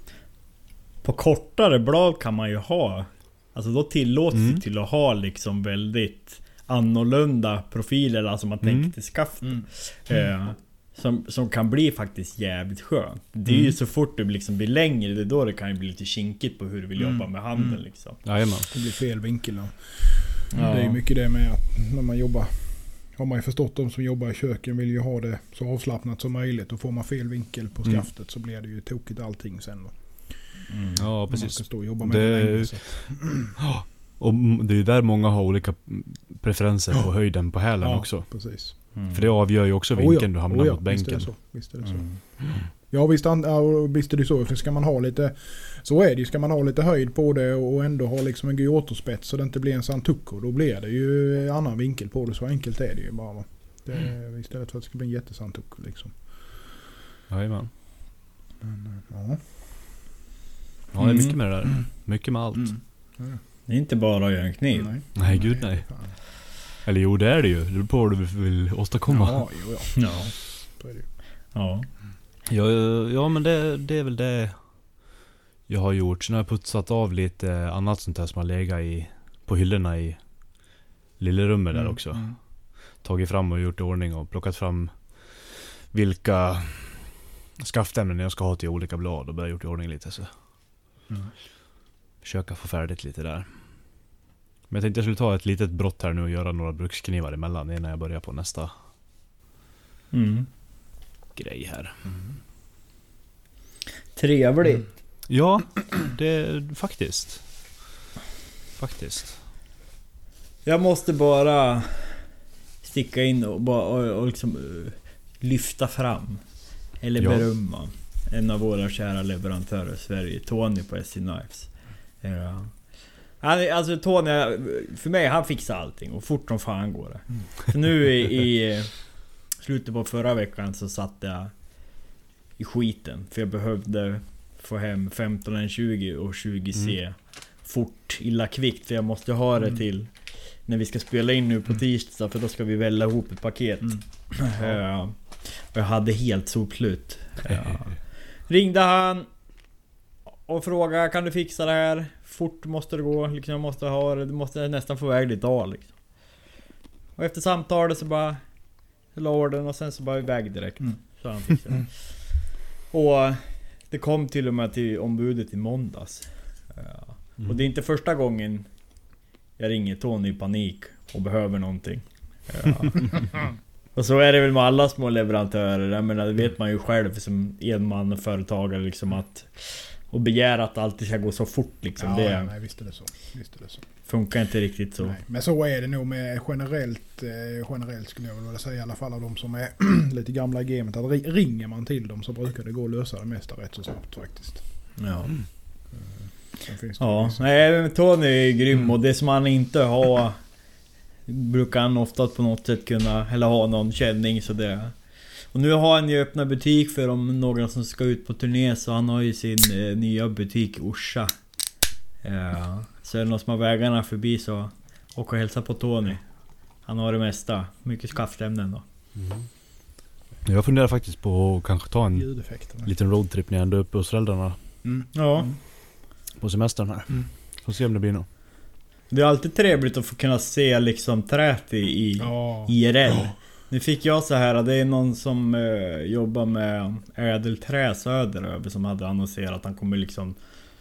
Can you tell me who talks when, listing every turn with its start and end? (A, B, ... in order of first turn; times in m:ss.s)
0:01.0-0:18.2 A
0:04.3-0:04.6 B
0:08.6-0:08.9 B
0:17.0-0:30.6 C
0:18.2-0:18.7 B
0:20.5-0:21.0 A
0:30.7-0:31.0 A
0:31.0-0:41.5 B
0:31.3-0:33.5 C
0:37.8-0:38.9 C
0:38.9-0:39.2 A
0:39.9-0:56.3 C
0:41.8-0:42.2 A
0:57.3-0:57.7 B
0:58.6-0:59.5 C
1:00.9-1:02.8 B
1:01.0-1:01.4 A
1:02.5-1:03.4 C
1:03.7-1:04.9 A
1:04.8-1:06.1 C
1:05.2-1:09.6 B
1:09.1-1:11.1 C
1:09.9-1:10.3 A
1:11.5-1:11.9 A
1:12.5-1:14.9 B
1:15.7-1:20.2 B
1:21.2-1:30.3 B
1:22.1-1:22.4 C
1:32.2-1:34.0 B
1:34.7-1:38.7 B
1:40.1-1:40.5 A
1:41.3-1:42.0 B
1:44.1-1:44.9 A
1:45.3-1:47.8 B
1:48.8-1:49.4 B
1:50.6-2:12.0 A
1:57.2-1:57.4 B
2:12.6-2:29.3 A
2:27.5-2:27.8 B
2:30.4-2:36.3 A
2:37.2-2:48.9 A
2:49.6-3:02.5 A
3:02.0-3:03.8 C
3:04.0-3:05.2 A
3:05.0-3:14.9 C
3:15.0-3:15.4 A
3:15.9-3:17.4 C
3:17.0-3:20.6 A
3:21.2-3:31.3 A
3:32.2-3:38.8 A
3:39.2-3:39.5 B
3:40.4-3:44.6 B
3:42.1-3:42.9 C
3:44.8-3:45.5 C
3:45.1-3:45.5 A
3:46.4-3:48.2 B
3:49.1-4:00.4 A
3:52.2-3:52.8 C